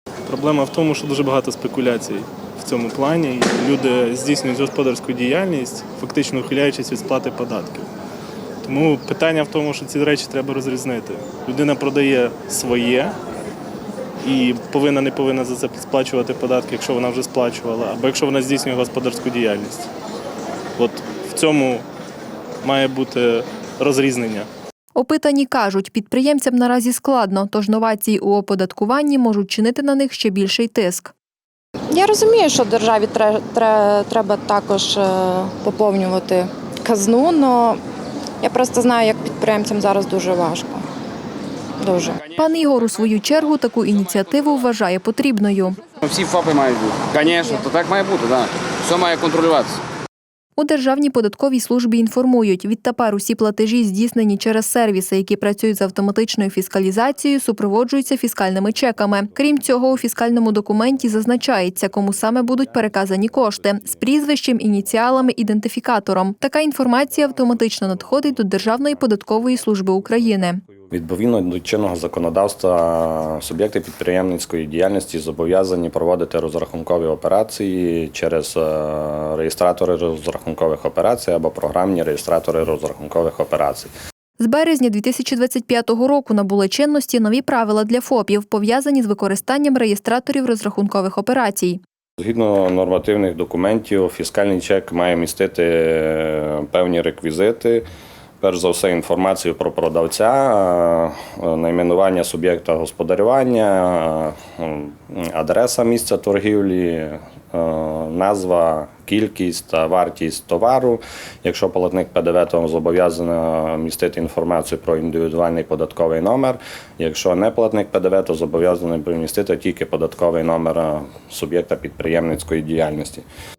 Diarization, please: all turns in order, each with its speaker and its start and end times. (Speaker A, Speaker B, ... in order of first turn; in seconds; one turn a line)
Speaker A: 0.3-7.9
Speaker A: 8.6-13.2
Speaker A: 14.2-19.9
Speaker A: 20.8-21.9
Speaker A: 22.6-24.5
Speaker B: 24.9-31.1
Speaker C: 31.9-37.8
Speaker C: 38.4-40.9
Speaker C: 41.8-42.2
Speaker B: 42.3-45.8
Speaker D: 46.0-49.8
Speaker C: 47.4-47.7
Speaker B: 50.6-70.6
Speaker E: 70.9-83.9
Speaker B: 84.4-91.8
Speaker E: 92.2-97.8
Speaker E: 98.4-123.2